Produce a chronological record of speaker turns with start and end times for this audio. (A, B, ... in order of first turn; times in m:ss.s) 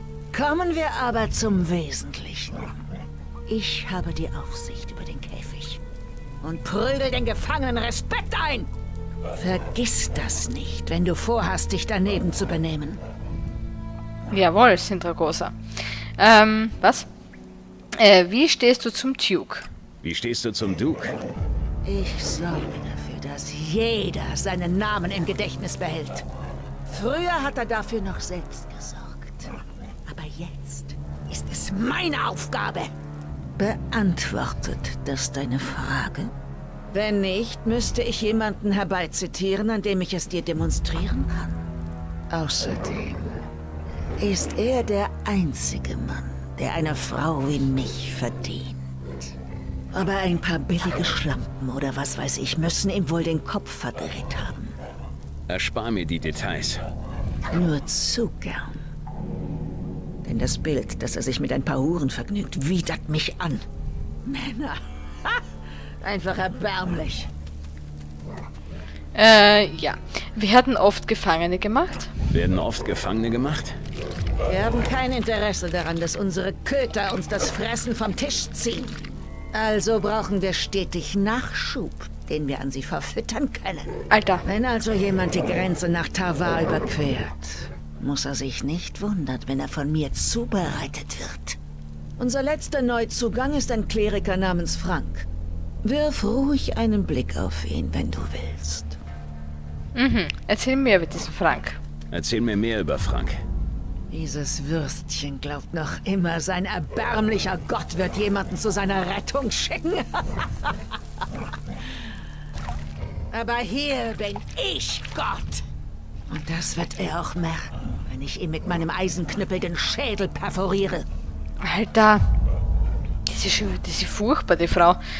0:00.3-0:02.8 A
0:03.5-0:05.8 A
0:06.4-0:08.7 A
0:09.4-0:13.0 A
0:14.3-0:15.5 B
0:16.2-0:17.1 B
0:18.0-0:19.7 B
0:20.0-0:21.1 C
0:21.8-0:26.3 A
0:26.9-0:29.5 A
0:30.1-0:32.9 A
0:33.6-0:36.3 A
0:36.9-0:41.7 A
0:42.3-0:43.4 A
0:44.2-0:48.8 A
0:49.9-0:54.7 A
0:55.5-0:56.8 C
0:57.5-0:58.8 A
1:00.2-1:03.6 A
1:04.2-1:05.4 A
1:06.0-1:07.3 A
1:09.1-1:12.1 B
1:12.3-1:13.8 C
1:14.4-1:19.0 A
1:19.5-1:23.9 A
1:24.1-1:24.4 B
1:24.4-1:31.6 A
1:32.2-1:35.3 A
1:35.8-1:39.0 A
1:39.9-1:41.8 B
1:42.1-1:43.4 C
1:44.1-1:50.7 A
1:53.3-1:55.6 A
1:56.3-2:01.0 A
2:01.6-2:02.2 B
2:03.2-2:05.0 B